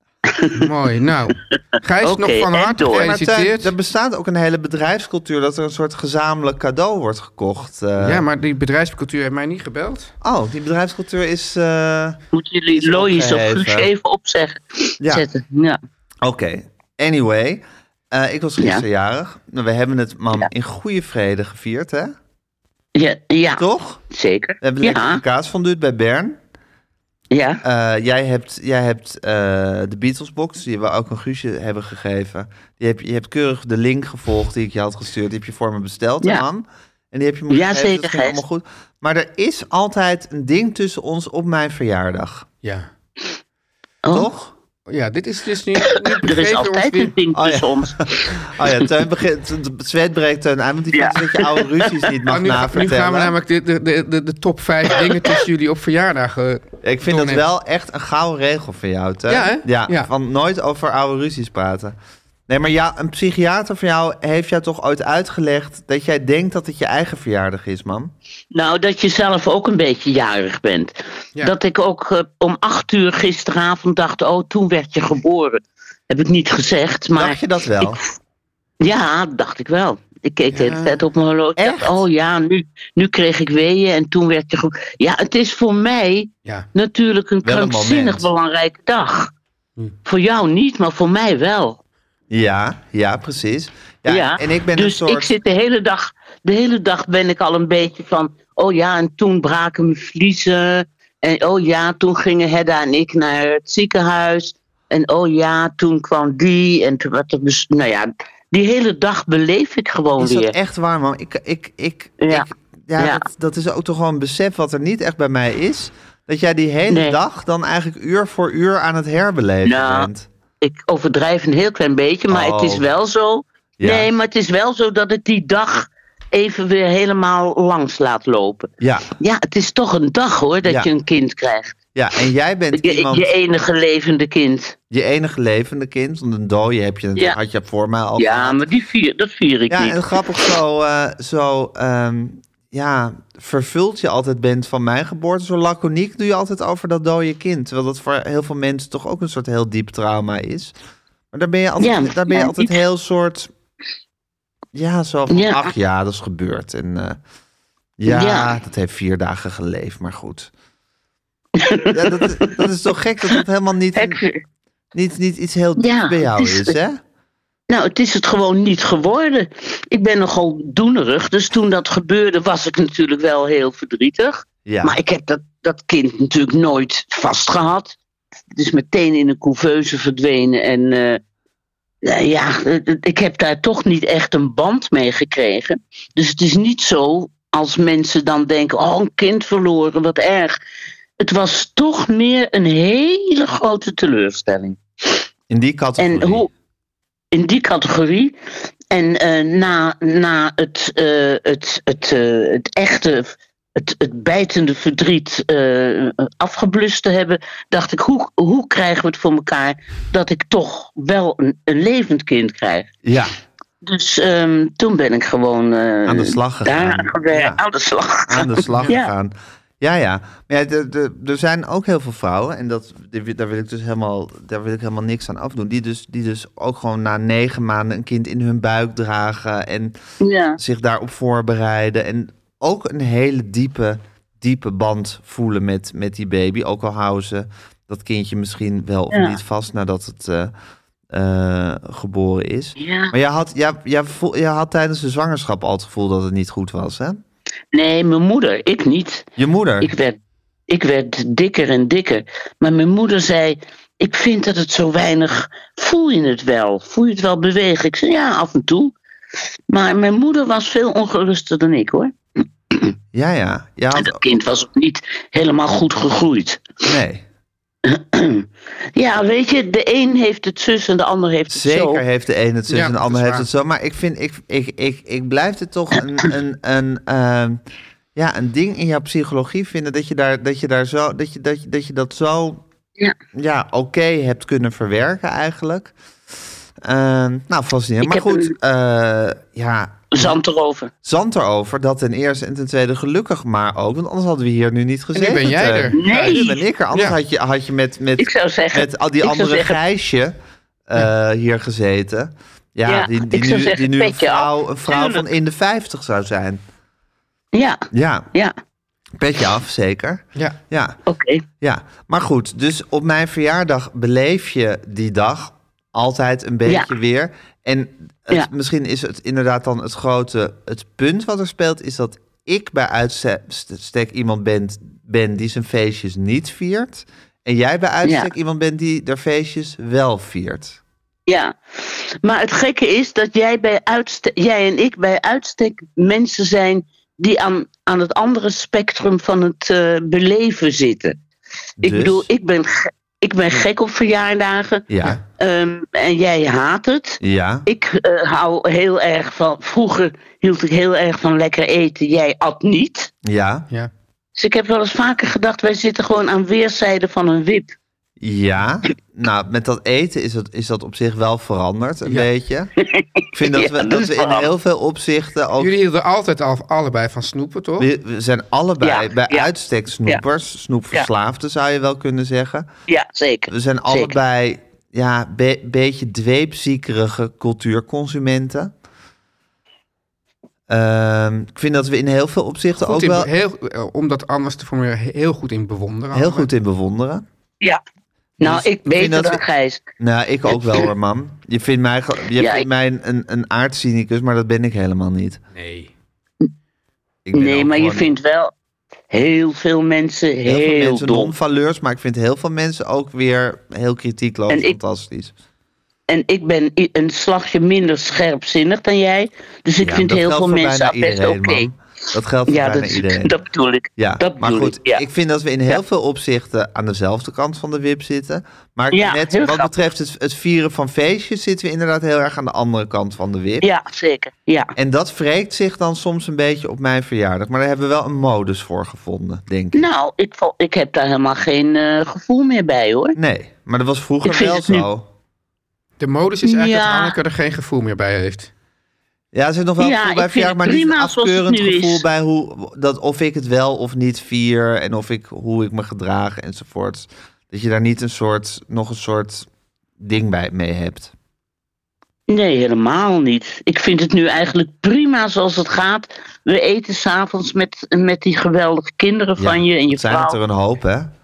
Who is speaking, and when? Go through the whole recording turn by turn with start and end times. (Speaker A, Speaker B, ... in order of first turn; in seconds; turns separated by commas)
Speaker A: 0.3-0.6, Speaker B: 0.6-3.7, Speaker A: 2.0-3.1, Speaker C: 2.8-8.2, Speaker B: 8.0-10.1, Speaker C: 10.2-12.2, Speaker A: 12.3-15.8, Speaker C: 12.8-13.9, Speaker C: 16.2-22.1, Speaker A: 18.6-18.8, Speaker A: 22.9-25.2, Speaker C: 23.6-24.0, Speaker C: 24.6-26.4, Speaker A: 27.3-27.6, Speaker C: 27.6-42.5, Speaker A: 37.5-38.4, Speaker B: 42.6-42.9, Speaker A: 44.0-44.3, Speaker C: 44.1-44.5, Speaker B: 44.9-47.1, Speaker A: 45.9-48.4, Speaker C: 47.4-53.4, Speaker A: 50.9-51.9, Speaker B: 52.3-57.5, Speaker C: 56.8-62.0, Speaker B: 59.3-60.1, Speaker C: 62.5-68.1, Speaker A: 68.5-78.0, Speaker C: 77.2-78.0, Speaker A: 78.8-89.3, Speaker B: 80.5-81.0, Speaker C: 81.6-82.0, Speaker C: 87.4-88.3, Speaker A: 90.1-91.8, Speaker C: 92.3-95.3, Speaker A: 94.1-110.5, Speaker C: 110.2-120.3, Speaker A: 112.2-113.2, Speaker A: 116.9-117.2, Speaker A: 119.7-120.1, Speaker A: 120.6-131.8, Speaker C: 122.3-122.8, Speaker C: 123.8-124.1, Speaker C: 128.8-129.1, Speaker C: 130.6-130.9, Speaker C: 131.9-133.3, Speaker A: 132.7-134.8, Speaker C: 134.9-138.6, Speaker A: 138.2-140.4, Speaker C: 139.7-150.7, Speaker C: 151.3-153.5, Speaker A: 151.8-152.7, Speaker C: 154.7-157.2, Speaker A: 155.3-155.7, Speaker C: 158.0-160.5, Speaker A: 158.1-158.5, Speaker A: 161.6-162.6, Speaker C: 161.9-164.2, Speaker A: 164.0-164.4, Speaker C: 164.9-167.0, Speaker A: 165.8-166.7, Speaker A: 167.7-178.0, Speaker C: 174.7-175.0, Speaker A: 178.5-181.2, Speaker A: 182.0-190.6, Speaker A: 191.2-195.2, Speaker C: 195.5-196.5, Speaker A: 196.0-196.5, Speaker A: 197.3-198.4, Speaker A: 198.9-212.9, Speaker C: 213.1-213.3, Speaker A: 213.8-219.1, Speaker C: 216.1-217.6, Speaker C: 218.3-229.9, Speaker A: 230.2-230.6, Speaker C: 230.6-240.5, Speaker A: 239.1-239.4, Speaker C: 241.1-247.2, Speaker A: 242.8-243.1, Speaker A: 247.7-249.3, Speaker C: 249.4-249.9, Speaker A: 249.8-258.9, Speaker A: 259.7-262.1, Speaker C: 263.1-264.2, Speaker A: 264.0-266.6, Speaker C: 266.9-267.2, Speaker A: 267.9-272.0, Speaker C: 271.5-277.6, Speaker B: 272.7-273.5, Speaker C: 278.1-282.6, Speaker C: 283.4-285.9, Speaker C: 286.8-290.4, Speaker A: 288.0-288.5, Speaker A: 290.1-290.9, Speaker C: 291.0-300.4, Speaker B: 295.1-297.2, Speaker A: 295.9-296.6, Speaker A: 298.2-299.8, Speaker C: 300.9-306.6, Speaker A: 302.9-305.2, Speaker A: 307.5-308.5, Speaker C: 307.9-308.3, Speaker C: 309.2-311.0, Speaker A: 311.1-311.4, Speaker C: 311.6-330.8, Speaker A: 328.0-328.3, Speaker A: 331.3-341.2, Speaker C: 341.8-342.3, Speaker A: 341.8-353.1, Speaker C: 344.9-345.2, Speaker C: 347.2-347.6, Speaker C: 353.2-353.7, Speaker A: 354.4-357.8, Speaker C: 358.2-362.7, Speaker A: 362.8-364.5, Speaker C: 363.3-365.7, Speaker B: 365.6-367.9, Speaker C: 367.8-372.7, Speaker A: 368.8-369.5, Speaker A: 372.9-374.2, Speaker C: 373.5-378.7, Speaker C: 380.7-383.3, Speaker B: 382.8-386.5, Speaker C: 386.1-387.2, Speaker A: 388.4-389.8, Speaker C: 388.4-389.4, Speaker C: 390.0-395.4, Speaker A: 392.3-392.7, Speaker B: 395.5-395.9, Speaker C: 397.3-398.1, Speaker A: 397.3-398.5, Speaker A: 399.1-401.3, Speaker C: 400.5-405.3, Speaker A: 404.5-404.8, Speaker A: 406.1-411.7, Speaker C: 409.8-413.4, Speaker A: 412.5-415.0, Speaker C: 414.0-423.7, Speaker A: 418.9-419.7, Speaker A: 423.6-424.7, Speaker C: 424.8-429.9, Speaker A: 429.7-433.2, Speaker C: 433.1-435.1, Speaker A: 434.2-434.9, Speaker B: 436.0-438.5, Speaker A: 436.4-437.2, Speaker C: 439.3-449.5, Speaker A: 439.8-442.0, Speaker C: 450.0-451.1, Speaker A: 452.3-460.4, Speaker C: 459.4-461.1